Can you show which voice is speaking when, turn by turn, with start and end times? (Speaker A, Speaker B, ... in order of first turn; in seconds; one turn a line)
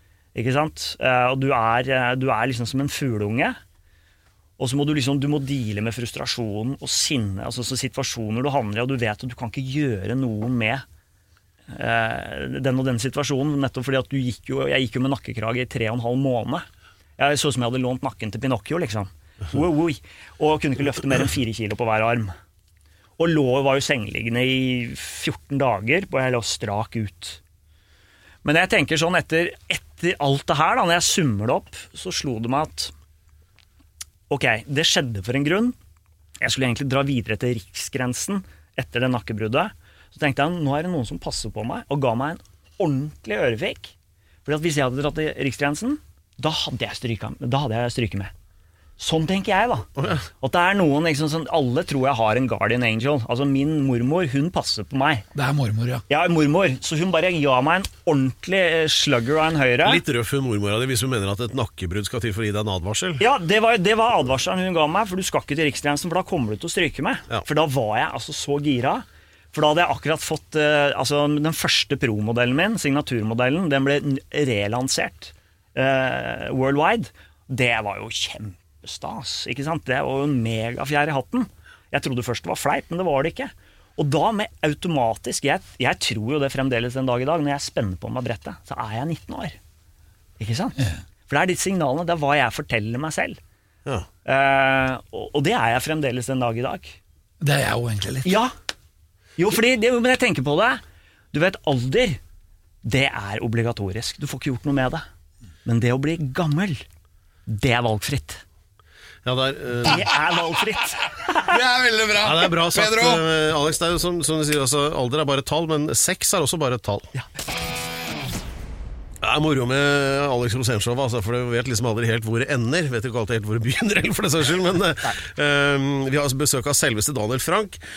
Speaker A: 0.3-3.6
Speaker A: 4.6-10.8
Speaker A: 11.7-16.7
Speaker A: 17.2-22.3
Speaker A: 23.2-27.4
Speaker A: 28.4-32.9
Speaker A: 34.3-35.8
Speaker A: 36.4-43.9
Speaker A: 44.5-48.3
Speaker A: 49.0-49.9
Speaker B: 50.0-50.3
Speaker A: 50.4-55.2
Speaker C: 55.3-56.0
Speaker A: 56.1-60.0
Speaker B: 59.9-63.2
Speaker A: 63.2-89.6
Speaker A: 90.4-93.4
Speaker A: 94.2-97.0
Speaker C: 97.4-98.4
Speaker A: 98.2-98.5
Speaker A: 99.4-100.8
Speaker A: 101.3-102.2
Speaker A: 102.8-105.1
Speaker A: 105.7-106.8
Speaker A: 107.5-108.4
Speaker B: 109.2-110.1
Speaker A: 109.8-111.6
Speaker C: 111.3-113.2
Speaker B: 112.2-117.1
Speaker B: 119.2-127.8